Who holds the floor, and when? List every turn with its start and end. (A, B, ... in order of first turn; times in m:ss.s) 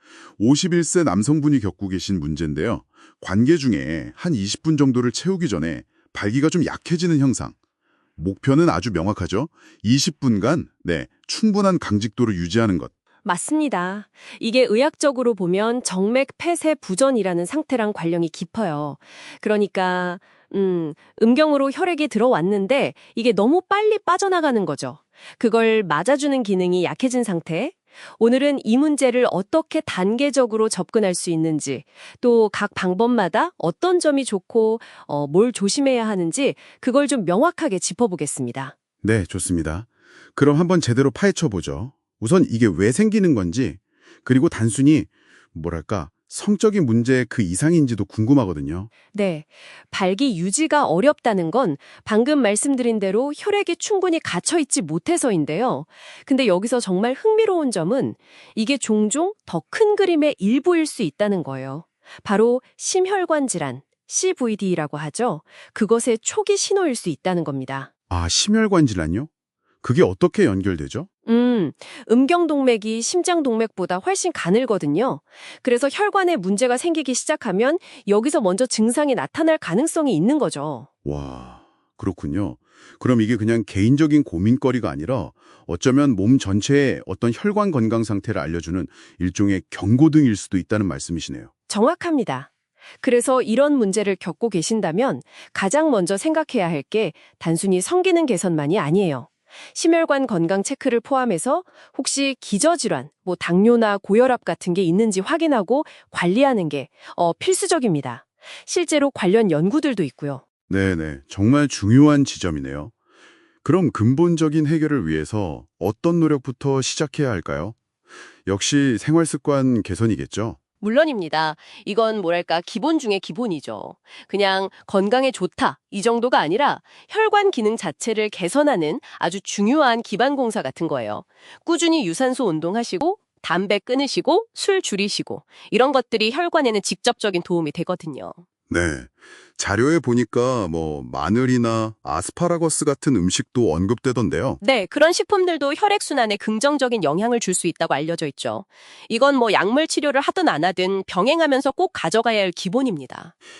0:00.4-0:07.5 A
0:08.2-0:12.9 A
0:13.2-0:38.7 B
0:39.0-0:48.9 A
0:49.1-1:07.9 B
1:08.1-1:09.3 A
1:09.8-1:11.1 A
1:11.2-1:20.9 B
1:21.0-1:31.5 A
1:31.7-1:32.5 B
1:33.0-1:50.4 B
1:50.7-1:52.9 A
1:53.6-1:57.8 A
1:58.4-2:00.6 A
2:00.8-2:18.4 B
2:18.7-2:24.6 A
2:24.6-2:33.3 B